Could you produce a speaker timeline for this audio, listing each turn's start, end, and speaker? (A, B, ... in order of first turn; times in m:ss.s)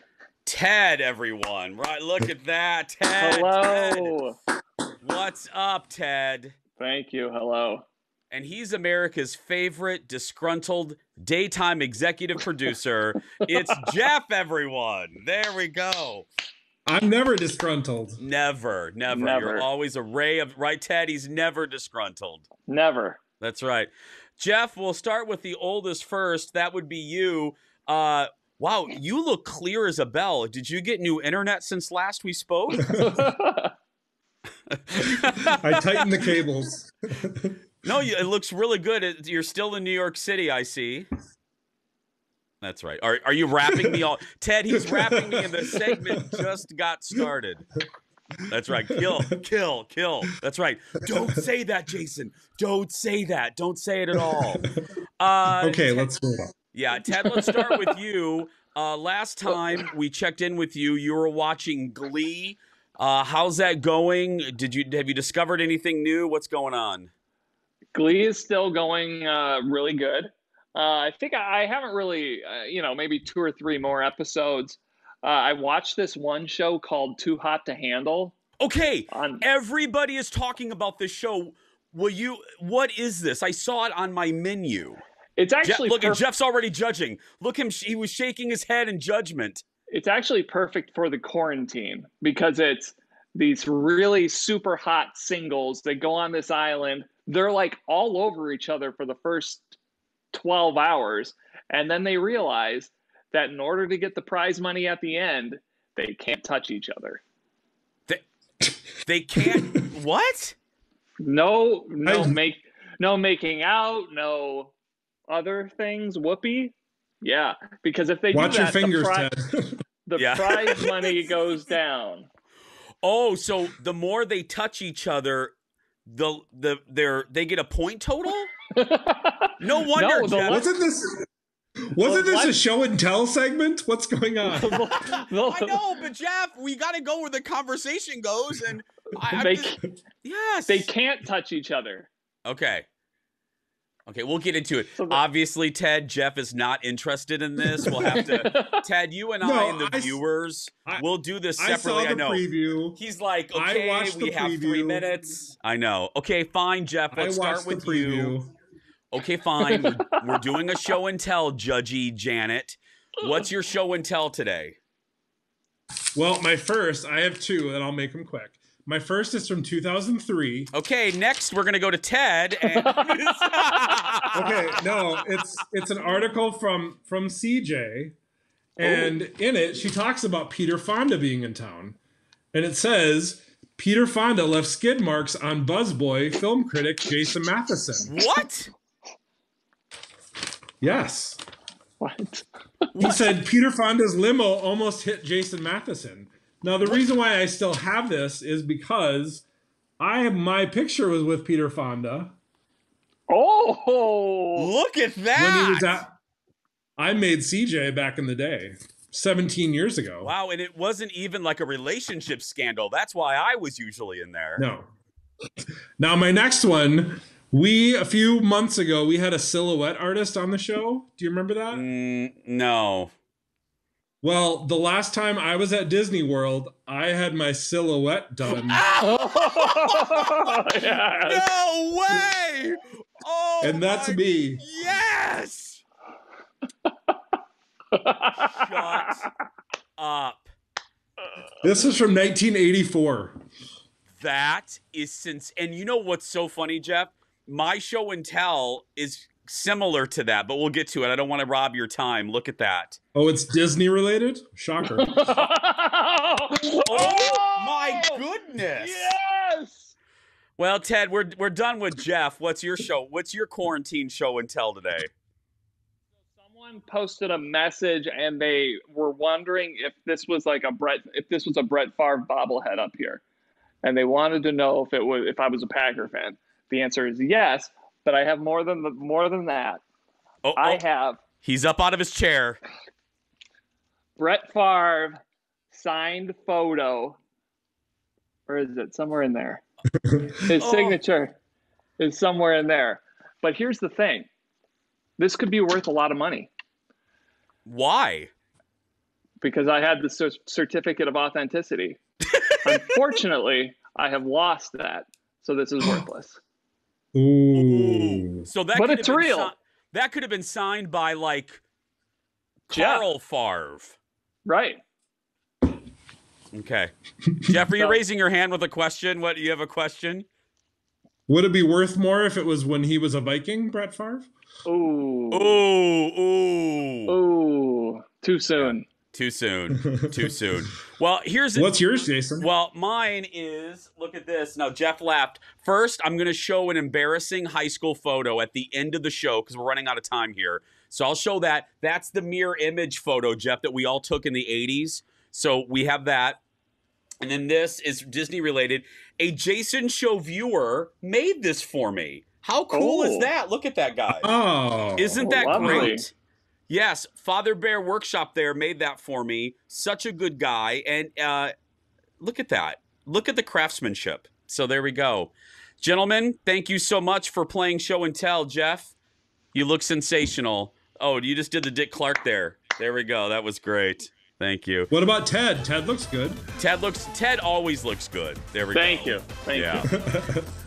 0:00.4-0:04.2 A
0:03.2-0:04.4 B
0:05.0-0:06.6 A
0:06.8-0:07.8 B
0:08.3-0:16.3 A
0:16.9-0:18.2 C
0:18.2-0:22.5 A
0:19.1-0:19.7 B
0:22.7-0:23.2 B
0:23.4-0:32.9 A
0:32.8-0:33.7 B
0:32.8-0:33.1 C
0:34.7-0:36.0 A
0:35.5-0:37.6 C
0:37.8-0:41.1 A
0:42.6-0:47.7 A
0:44.9-0:45.6 C
0:48.5-0:54.7 A
0:48.9-0:49.3 C
0:54.2-0:54.7 C
0:55.2-0:56.1 A
0:55.6-0:56.4 C
0:56.7-1:07.1 A
0:57.1-0:57.9 C
1:07.9-1:18.4 B
1:18.6-1:25.0 A
1:19.1-1:19.4 B
1:25.4-1:26.2 B
1:25.6-1:29.6 A
1:29.9-1:39.8 B
1:40.3-1:47.2 B
1:49.0-1:50.6 A
1:51.2-1:54.7 B
1:52.0-1:52.4 C
1:55.3-1:59.3 B
1:58.3-1:59.8 C
2:00.1-2:02.3 B
2:00.2-2:01.1 A
2:03.0-2:08.5 A
2:08.8-2:10.7 B
2:09.6-2:10.7 A
2:10.5-2:11.1 C
2:11.9-2:14.7 C
2:12.0-2:12.6 B
2:14.5-2:15.8 B
2:15.0-2:20.9 A
2:19.3-2:19.8 B
2:20.7-2:22.1 B
2:22.4-2:22.9 A
2:24.1-2:32.4 A
2:25.0-2:25.2 B
2:27.9-2:28.8 B
2:29.4-2:30.2 C
2:31.6-2:33.0 C
2:33.0-2:38.3 A
2:33.5-2:35.0 C
2:37.1-2:38.5 C
2:39.1-2:44.8 A
2:46.2-2:50.7 C
2:50.7-2:54.6 A
2:52.8-2:53.3 B
2:54.3-2:58.2 C
2:58.8-3:02.0 C
2:58.8-2:59.1 B
3:02.5-3:08.1 C
3:08.1-3:08.7 A
3:10.8-3:11.4 C
3:12.0-3:12.5 B
3:12.9-3:13.2 A
3:13.0-3:19.4 C
3:20.0-3:22.3 C
3:23.3-3:24.7 B
3:24.6-3:26.0 A
3:25.4-3:26.2 C
3:27.0-3:30.3 C
3:30.2-3:34.6 A
3:34.6-3:34.9 C
3:36.0-3:41.8 C
3:41.7-3:43.1 A
3:44.2-3:48.8 C
3:48.7-3:55.8 A
3:49.0-3:51.4 B
3:53.6-3:54.6 C
3:57.9-3:59.0 B
3:58.4-3:59.3 A
4:00.0-4:00.5 A
4:01.6-4:03.4 C
4:04.1-4:13.0 A
4:13.1-4:15.2 C
4:14.9-4:18.2 B
4:16.9-4:19.2 A
4:18.7-4:19.9 B
4:20.6-4:25.1 A
4:26.4-4:33.2 B
4:33.8-4:39.8 B
4:40.4-4:40.8 A
4:40.6-4:41.2 B
4:41.4-4:42.6 A
4:44.2-4:45.2 B
4:45.7-4:47.2 B
4:48.5-4:49.6 B
4:50.4-4:51.4 B
4:50.6-4:51.0 A
4:52.0-4:54.3 B
4:55.2-4:56.5 B
4:57.6-4:58.3 A
4:59.4-5:02.0 B
5:02.3-5:02.6 A
5:02.6-5:06.4 B
5:07.1-5:08.5 C
5:07.5-5:11.6 A
5:08.8-5:09.5 B
5:12.7-5:14.0 A
5:12.7-5:13.1 B
5:14.5-5:14.8 B
5:16.5-5:16.9 A
5:17.4-5:20.3 A
5:17.7-5:18.0 B
5:21.3-5:24.3 C
5:24.7-5:25.6 B
5:25.3-5:27.2 A
5:27.1-5:28.9 B
5:28.6-5:31.8 A
5:29.8-5:30.2 C
5:31.6-5:32.5 C
5:32.4-5:46.4 A
5:47.2-5:54.3 A
5:52.7-5:53.3 B
5:54.2-5:55.9 C
5:55.0-5:56.1 A
5:55.2-5:56.1 B
5:56.7-6:01.5 A
6:02.2-6:08.9 A
6:09.5-6:14.9 A
6:14.9-6:16.4 C
6:16.6-6:19.9 A
6:18.7-6:19.9 B
6:19.8-6:20.5 C